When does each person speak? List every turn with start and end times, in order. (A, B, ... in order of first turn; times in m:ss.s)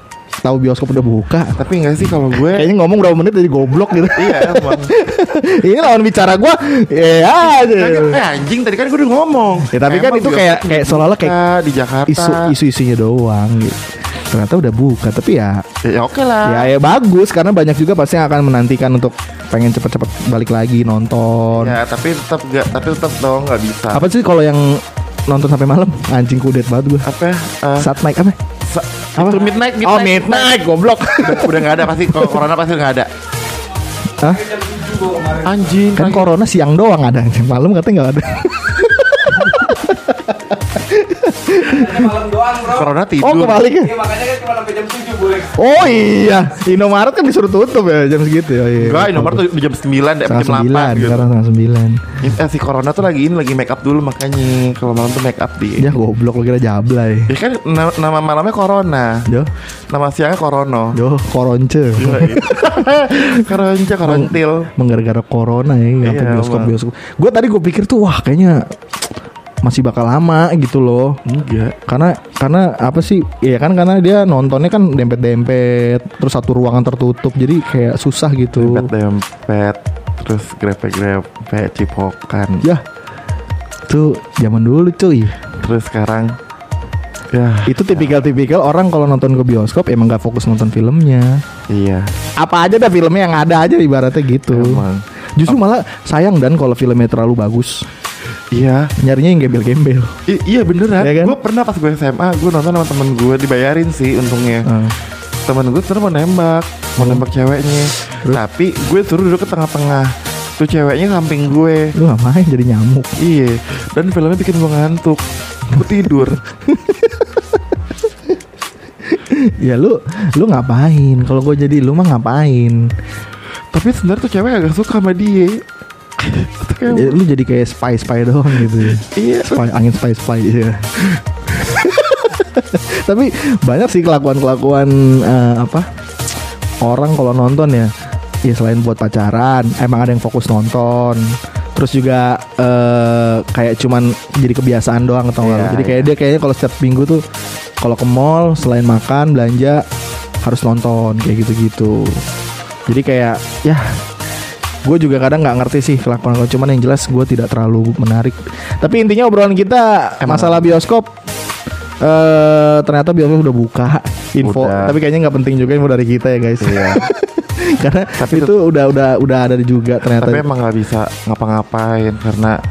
0:00.4-0:01.6 A
0:01.6-0:02.7 B
0:02.3-0:08.2 A
0:04.1-0:04.9 B
0:07.6-0:12.5 B
0:09.7-0:11.3 A
0:12.1-0:15.6 A
0:15.8-0:16.7 B
0:16.4-0:21.8 A
0:21.5-0:24.1 B
0:23.9-0:27.1 A
0:27.0-0:27.9 B
0:27.8-0:28.4 A
0:28.7-0:30.6 B
0:29.2-0:32.4 A
0:31.2-0:33.1 B
0:34.2-0:34.4 A
0:34.2-0:35.9 C
0:35.4-0:36.3 B
0:36.0-0:42.1 A
0:41.6-0:42.9 C
0:42.6-0:43.6 B
0:43.2-0:44.0 A
0:43.8-0:45.6 C
0:45.6-0:49.4 A
0:48.8-0:51.3 B
0:50.3-0:52.2 A
0:52.2-0:55.9 B
0:55.8-0:57.3 A
0:57.3-0:59.3 B
0:59.9-1:01.0 B
1:00.9-1:03.4 A
1:02.0-1:04.7 B
1:04.0-1:08.6 A
1:06.0-1:06.7 B
1:09.6-1:11.2 A
1:11.3-1:11.8 B
1:11.9-1:18.9 A
1:18.6-1:22.7 B
1:23.9-1:25.4 A
1:25.6-1:26.3 B
1:27.3-1:28.1 B
1:27.7-1:31.4 A
1:31.7-1:32.1 B
1:32.4-1:34.9 A
1:34.5-1:35.6 B
1:35.4-1:37.8 A
1:38.5-1:38.9 B
1:39.0-1:40.1 A
1:40.3-1:44.7 B
1:41.0-1:41.4 A
1:44.6-1:45.0 A
1:45.4-1:51.9 B
1:47.0-1:47.2 A
1:52.0-1:53.1 A
1:53.2-1:56.4 B
1:56.7-1:57.4 A
1:59.2-2:02.9 A
2:03.7-2:05.6 B
2:06.2-2:07.2 B
2:06.9-2:10.8 A
2:09.0-2:09.6 B
2:11.6-2:15.8 A
2:16.8-2:17.9 A
2:18.4-2:27.2 A
2:25.4-2:26.1 B
2:27.8-2:29.8 A
2:30.4-2:32.2 A
2:32.9-2:33.9 A
2:34.8-2:41.1 A
2:40.2-2:40.8 B
2:42.0-2:50.4 A
2:44.4-2:45.0 B
2:46.6-2:47.0 B
2:48.2-2:48.6 B
2:50.1-2:52.6 B